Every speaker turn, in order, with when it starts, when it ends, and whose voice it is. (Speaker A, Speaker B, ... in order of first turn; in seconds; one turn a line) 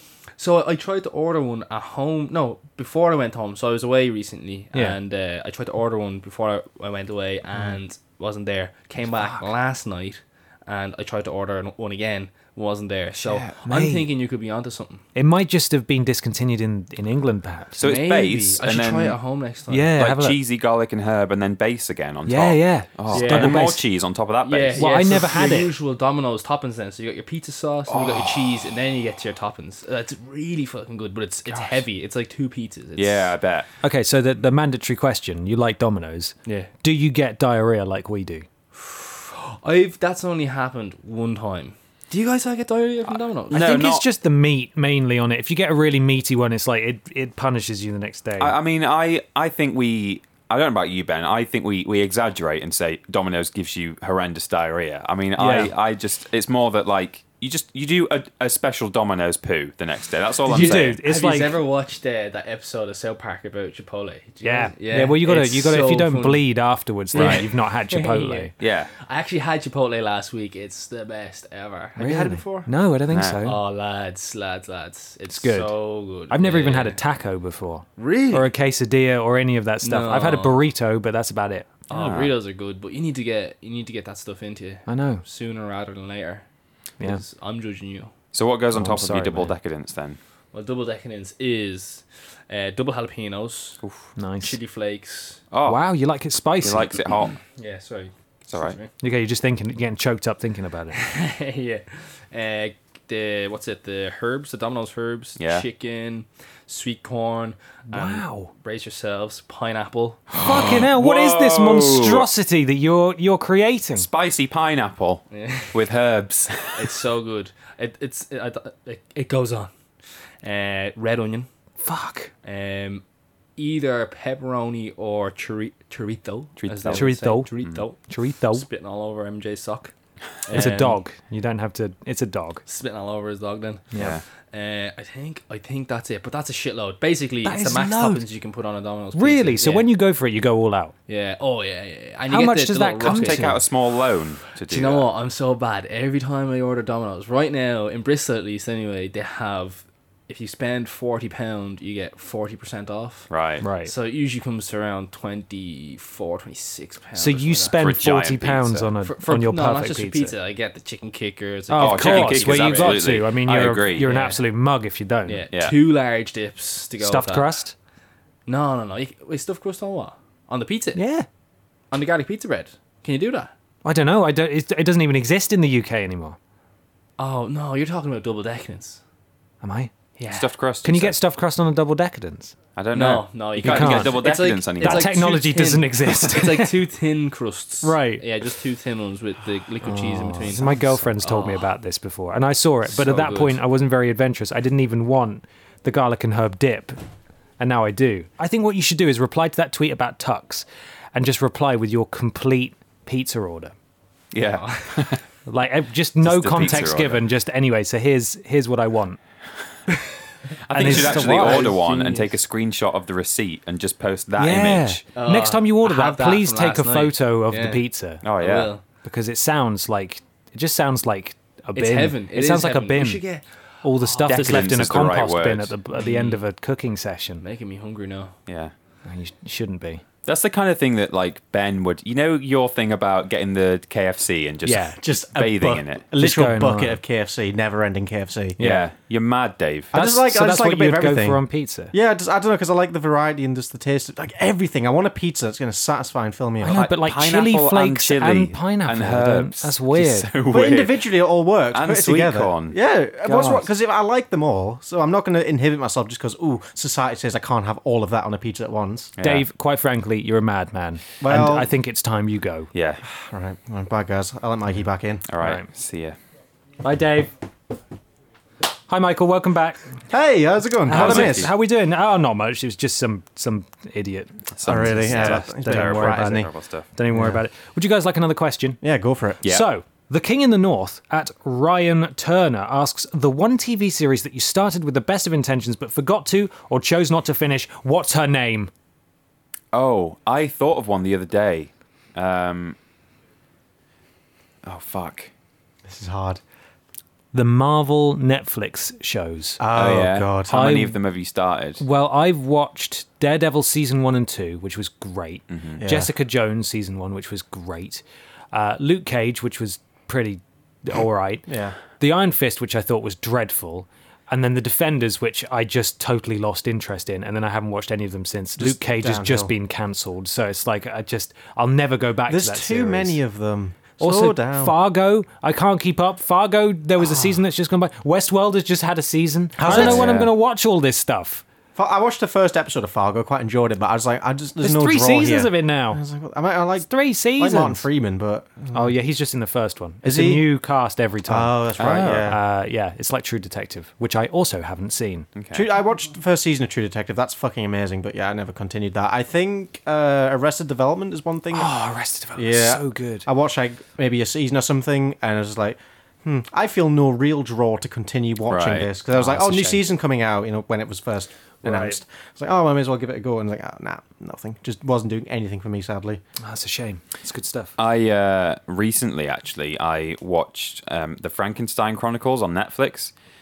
Speaker A: 0.4-15.0
Speaker B: 9.2-9.4
Speaker C: 13.2-13.6
Speaker B: 13.6-14.1
Speaker B: 15.2-17.9
Speaker C: 17.8-19.2
Speaker A: 17.8-20.0
Speaker B: 19.7-20.4
Speaker C: 20.0-24.9
Speaker B: 22.3-23.8
Speaker A: 23.1-23.8
Speaker A: 24.4-33.3
Speaker B: 24.8-25.8
Speaker C: 27.9-28.3
Speaker C: 33.0-33.7
Speaker B: 33.8-38.5
Speaker A: 38.7-43.7
Speaker C: 43.5-44.0
Speaker B: 43.5-48.6
Speaker C: 48.4-61.0
Speaker B: 55.4-55.7
Speaker A: 60.5-66.5
Speaker B: 60.5-61.6
Speaker B: 64.4-68.5
Speaker A: 67.1-72.7
Speaker C: 67.2-67.5
Speaker C: 68.6-68.9
Speaker B: 72.0-73.6
Speaker C: 73.1-73.4
Speaker A: 73.4-77.0
Speaker B: 75.3-75.8
Speaker B: 76.3-81.7
Speaker A: 78.0-78.5
Speaker A: 79.8-80.6
Speaker A: 81.9-86.5
Speaker C: 81.9-82.3
Speaker B: 84.9-85.2
Speaker A: 87.0-88.1
Speaker C: 88.3-90.2
Speaker B: 88.7-89.5
Speaker A: 90.5-93.8
Speaker B: 94.2-94.6
Speaker A: 94.4-95.4
Speaker C: 95.5-95.8
Speaker B: 95.6-97.0
Speaker C: 96.6-97.4
Speaker A: 97.4-98.9
Speaker C: 98.5-98.8
Speaker B: 99.0-101.0
Speaker A: 100.9-110.3
Speaker C: 105.4-105.7
Speaker B: 107.9-108.5
Speaker C: 110.3-112.3
Speaker B: 110.4-114.1
Speaker C: 114.0-117.0
Speaker A: 115.3-115.9
Speaker A: 116.6-119.7
Speaker A: 120.4-121.5
Speaker B: 121.8-122.3
Speaker A: 122.4-123.0
Speaker A: 123.6-129.9
Speaker C: 126.6-127.8
Speaker B: 126.9-128.7
Speaker A: 130.4-131.0
Speaker B: 130.5-132.6
Speaker A: 132.7-139.9
Speaker B: 133.9-134.2
Speaker C: 134.0-134.2
Speaker B: 137.4-138.2
Speaker B: 139.1-140.9
Speaker A: 141.1-143.7
Speaker B: 142.3-143.6
Speaker C: 143.0-145.1
Speaker A: 144.6-157.8
Speaker C: 153.3-153.6
Speaker B: 153.6-153.9
Speaker B: 157.2-160.3
Speaker C: 157.8-158.9
Speaker A: 159.0-163.2
Speaker B: 161.7-165.4
Speaker C: 161.7-164.1
Speaker A: 164.0-164.4
Speaker A: 165.2-167.5
Speaker B: 167.0-167.7
Speaker A: 168.5-171.0
Speaker B: 170.9-171.3
Speaker A: 171.9-173.5
Speaker B: 173.8-176.4
Speaker A: 177.2-179.0
Speaker B: 179.6-179.9
Speaker A: 180.2-180.5
Speaker C: 180.3-181.2
Speaker B: 180.8-182.6
Speaker C: 182.8-185.2
Speaker A: 182.9-191.7
Speaker B: 183.6-184.3
Speaker B: 184.8-186.8
Speaker B: 187.8-188.2
Speaker B: 189.8-197.0
Speaker A: 192.9-193.6
Speaker B: 197.6-203.7
Speaker C: 204.3-205.2
Speaker A: 204.4-205.2
Speaker B: 205.5-209.2
Speaker C: 206.2-207.2
Speaker C: 210.7-215.1
Speaker B: 210.7-211.7
Speaker A: 210.8-212.4
Speaker B: 214.4-218.2
Speaker A: 215.2-217.8
Speaker C: 218.2-218.7
Speaker A: 218.4-218.8
Speaker B: 219.0-223.2
Speaker A: 221.8-223.5
Speaker B: 223.8-227.4
Speaker A: 224.0-224.8
Speaker C: 224.3-225.7
Speaker A: 225.9-226.4
Speaker A: 227.4-228.3
Speaker C: 228.5-228.7
Speaker B: 229.1-230.0
Speaker C: 230.3-236.0
Speaker B: 234.7-235.0
Speaker D: 235.0-238.6
Speaker B: 236.2-237.0
Speaker B: 238.6-238.9
Speaker C: 238.6-239.9
Speaker D: 239.9-246.8
Speaker B: 239.9-241.9
Speaker B: 246.6-250.3
Speaker C: 246.7-251.0
Speaker D: 250.5-259.1
Speaker C: 251.7-253.7
Speaker C: 259.2-259.4
Speaker B: 259.2-262.7
Speaker D: 261.2-261.7
Speaker C: 262.7-263.0
Speaker D: 263.1-265.2
Speaker C: 265.3-266.2
Speaker B: 265.4-265.7
Speaker B: 266.8-267.3
Speaker B: 268.9-269.9
Speaker D: 270.1-271.5
Speaker B: 270.9-278.8
Speaker C: 270.9-271.5
Speaker C: 274.6-276.9
Speaker D: 274.6-276.5
Speaker D: 277.1-277.4
Speaker D: 278.8-279.4
Speaker B: 279.4-288.7
Speaker C: 289.7-292.8
Speaker C: 294.6-295.3
Speaker D: 295.9-296.4
Speaker B: 297.3-299.6
Speaker D: 299.6-300.5
Speaker C: 299.7-301.8
Speaker B: 300.5-301.0
Speaker B: 301.8-323.2
Speaker C: 305.5-305.8
Speaker D: 305.8-306.1
Speaker D: 311.5-311.8
Speaker D: 318.6-319.5
Speaker D: 322.3-324.8
Speaker B: 324.0-331.4
Speaker D: 327.0-327.3
Speaker D: 329.6-330.3
Speaker C: 329.7-330.3
Speaker D: 331.8-338.9
Speaker B: 334.6-336.0
Speaker B: 336.8-337.9
Speaker B: 338.7-345.3
Speaker D: 340.0-340.5
Speaker D: 341.3-342.4
Speaker C: 341.8-342.3
Speaker C: 345.4-345.7
Speaker D: 345.5-351.7
Speaker B: 351.5-353.3
Speaker D: 352.4-366.2
Speaker C: 358.5-358.9
Speaker B: 359.1-359.8
Speaker B: 361.6-362.0
Speaker B: 366.4-367.7
Speaker C: 367.8-373.1